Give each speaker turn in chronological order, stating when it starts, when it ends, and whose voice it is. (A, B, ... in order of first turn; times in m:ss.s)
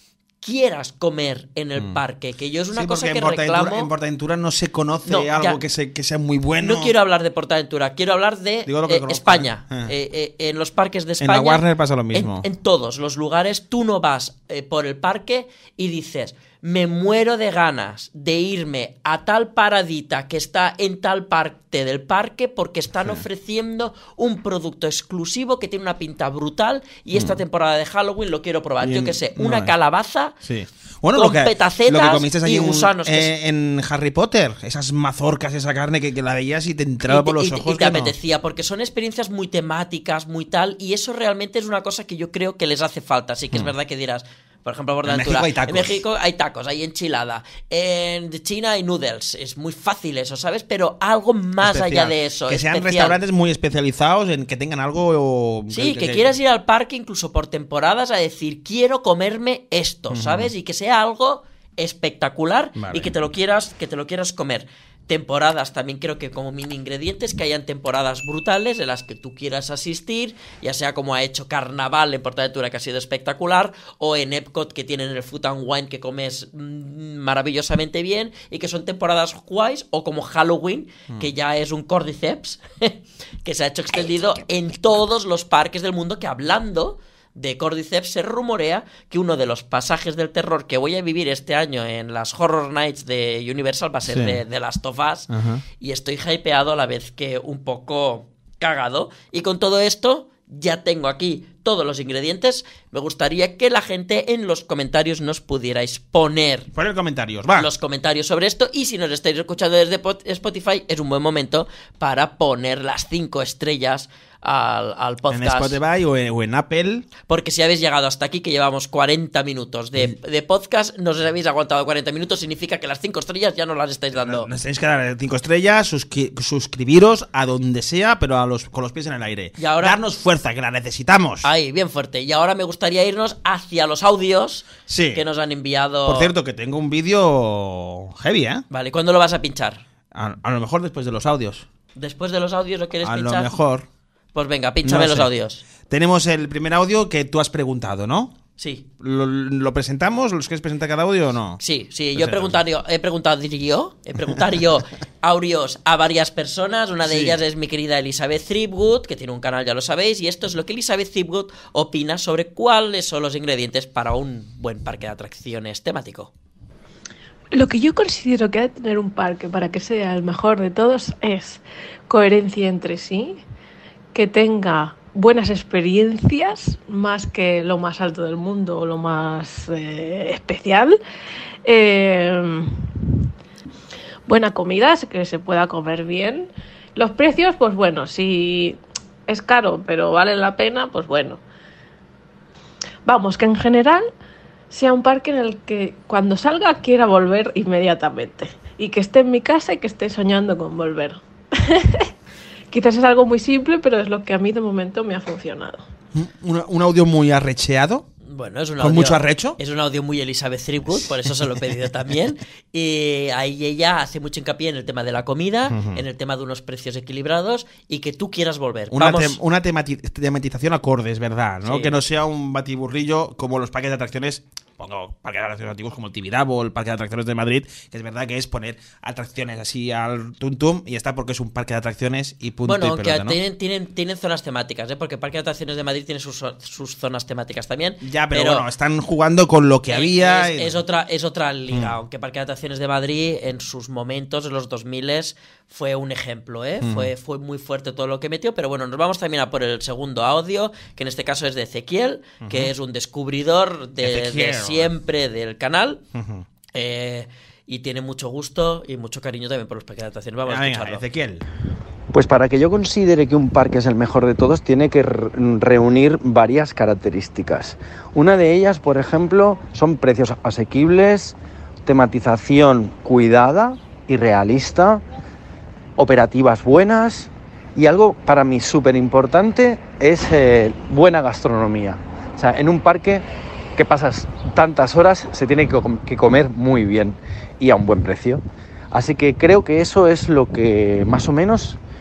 0:00.4-0:03.9 A
0:02.7-0:06.9 B
0:05.0-0:05.6 A
0:06.6-0:30.4 A
0:08.7-0:09.9 B
0:11.2-0:12.5 B
0:27.1-0:27.4 B
0:28.8-0:29.8 B
0:30.4-0:38.1 B
0:31.2-0:33.3 A
0:37.1-0:53.2 A
0:45.0-0:46.0 B
0:51.6-0:56.3 B
0:55.7-1:46.7 A
1:00.1-1:00.5 B
1:02.8-1:03.1 B
1:34.1-1:34.4 B
1:35.3-1:35.6 B
1:46.7-1:47.7 B
1:47.6-1:55.8 A
1:55.3-1:57.1 B
1:57.3-2:04.5 A
2:04.1-2:11.5 B
2:09.6-2:10.0 A
2:11.4-2:16.3 A
2:14.9-2:15.2 B
2:16.1-2:18.6 B
2:18.7-2:19.8 A
2:20.1-2:21.7 B
2:22.0-2:23.6 A
2:23.0-2:23.9 B
2:24.3-2:25.6 A
2:24.8-2:25.3 B
2:25.9-2:28.4 B
2:28.6-2:28.9 A
2:29.0-2:31.6 B
2:31.6-2:46.3 A
2:32.2-2:32.6 B
2:37.0-2:37.4 B
2:47.5-2:53.4 C
2:54.1-3:01.0 C
3:01.6-3:03.0 C
3:04.3-3:11.4 C
3:13.0-3:14.1 C
3:14.7-3:22.1 C
3:22.7-3:25.9 C
3:26.1-3:28.1 B
3:28.2-3:39.4 A
3:28.8-3:29.6 B
3:30.9-3:31.7 B
3:35.7-3:36.0 B
3:38.9-3:53.4 B
3:41.6-3:42.0 A
3:52.7-3:58.7 A
3:58.0-4:00.8 B
3:59.9-4:16.0 A
4:01.7-4:02.0 B
4:06.8-4:07.1 B
4:12.4-4:12.7 B
4:14.0-4:14.9 B
4:16.1-4:16.4 B
4:16.8-4:21.0 A
4:20.5-4:21.4 B
4:22.1-4:35.0 D
4:36.0-4:43.2 D
4:43.8-4:51.8 D